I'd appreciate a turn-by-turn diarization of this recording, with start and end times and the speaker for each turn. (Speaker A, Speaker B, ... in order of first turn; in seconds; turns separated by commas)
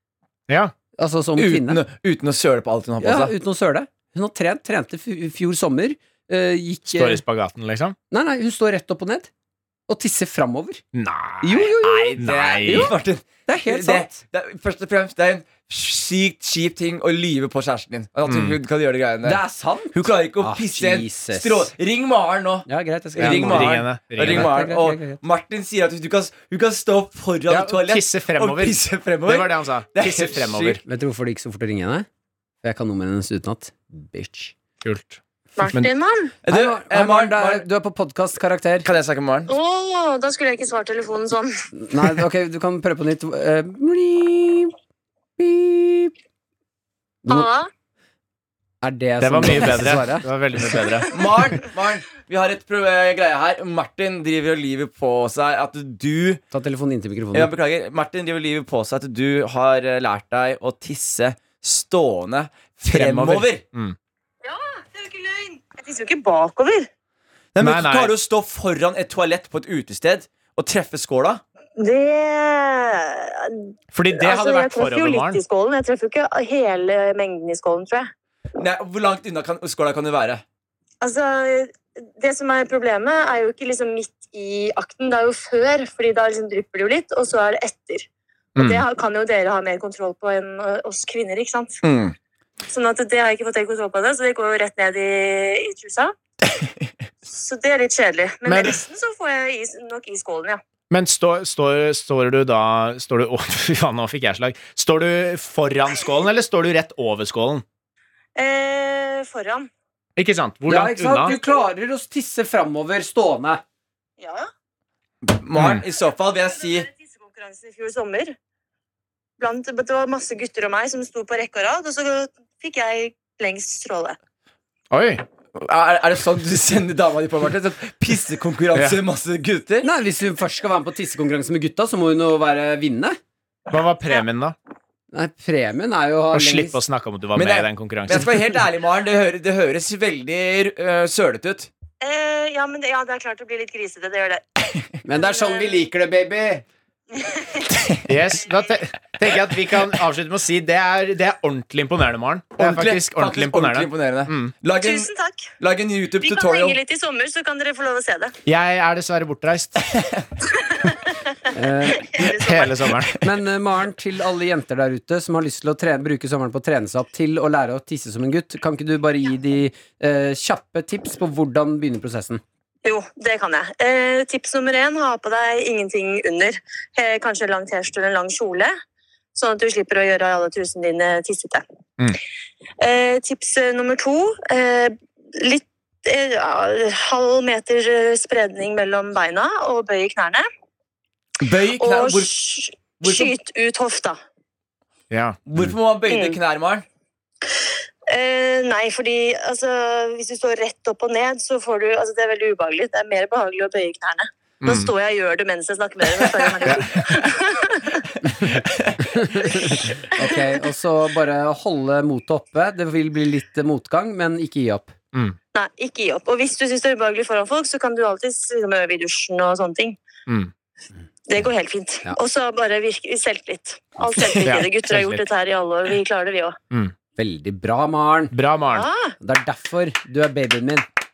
Speaker A: 0.5-0.7, Speaker B: 1.0-1.8, Speaker C: 1.4-3.3, Speaker B: 3.0-7.2, Speaker A: 6.9-8.0, Speaker B: 8.1-9.3, Speaker B: 9.9-10.8, Speaker A: 10.9-12.9, Speaker B: 11.4-12.9, Speaker C: 11.9-19.4, Speaker B: 13.5-14.1, Speaker A: 18.3-18.6, Speaker B: 19.2-21.7, Speaker C: 19.9-30.8, Speaker B: 22.7-25.2, Speaker A: 23.2-24.5, Speaker A: 27.5-30.8, Speaker B: 30.9-32.1, Speaker B: 32.6-34.5, Speaker A: 34.8-35.9, Speaker D: 35.6-36.3, Speaker C: 36.4-37.6, Speaker B: 36.5-38.9, Speaker C: 38.8-39.5, Speaker D: 39.5-41.5, Speaker B: 41.8-44.7, Speaker B: 45.4-46.1, Speaker D: 47.3-47.7, Speaker B: 48.8-50.3, Speaker A: 49.2-51.1, Speaker C: 51.1-56.4, Speaker B: 56.5-57.5, Speaker C: 57.3-63.6, Speaker A: 62.9-64.0, Speaker D: 64.4-66.9, Speaker C: 67.5-71.4, Speaker A: 67.6-68.1, Speaker D: 71.8-78.1, Speaker A: 73.9-75.4, Speaker C: 78.6-80.4, Speaker D: 81.0-91.8, Speaker A: 88.6-88.8, Speaker C: 91.8-92.2, Speaker D: 92.7-96.1, Speaker D: 97.3-100.6, Speaker A: 98.5-98.8, Speaker A: 100.9-107.6, Speaker D: 108.4-109.7, Speaker A: 110.2-111.4, Speaker B: 110.7-113.6, Speaker D: 114.2-114.5, Speaker C: 115.2-116.9, Speaker A: 115.5-115.8, Speaker D: 116.5-118.4, Speaker D: 119.4-124.2, Speaker A: 124.9-125.2, Speaker C: 125.5-129.9, Speaker A: 128.7-129.0, Speaker B: 129.8-133.2, Speaker A: 133.7-134.6, Speaker B: 135.1-136.8, Speaker A: 136.3-138.3, Speaker C: 137.3-141.7, Speaker D: 142.0-144.5, Speaker B: 145.1-146.6, Speaker D: 145.1-145.9, Speaker D: 147.1-147.7, Speaker A: 148.1-154.5, Speaker C: 152.6-156.8, Speaker D: 154.8-155.5, Speaker D: 156.2-158.3, Speaker A: 158.5-159.8, Speaker C: 159.9-160.2, Speaker D: 160.7-161.0, Speaker B: 161.5-162.2, Speaker D: 162.0-162.9, Speaker A: 162.2-163.2, Speaker C: 163.0-163.2, Speaker B: 163.2-172.4, Speaker D: 172.8-178.7, Speaker D: 179.3-181.6, Speaker D: 182.8-190.5, Speaker C: 191.4-192.4, Speaker D: 191.8-194.2, Speaker C: 193.0-193.3, Speaker A: 195.1-195.7, Speaker C: 195.5-196.8, Speaker D: 196.1-196.4, Speaker D: 198.1-208.1, Speaker A: 204.6-204.9, Speaker A: 206.7-206.9, Speaker C: 208.4-209.2, Speaker B: 209.1-214.9, Speaker D: 215.5-220.0, Speaker D: 221.3-226.6, Speaker A: 224.4-225.2, Speaker B: 227.2-228.4, Speaker A: 228.3-228.9, Speaker D: 228.7-229.1, Speaker B: 229.2-230.8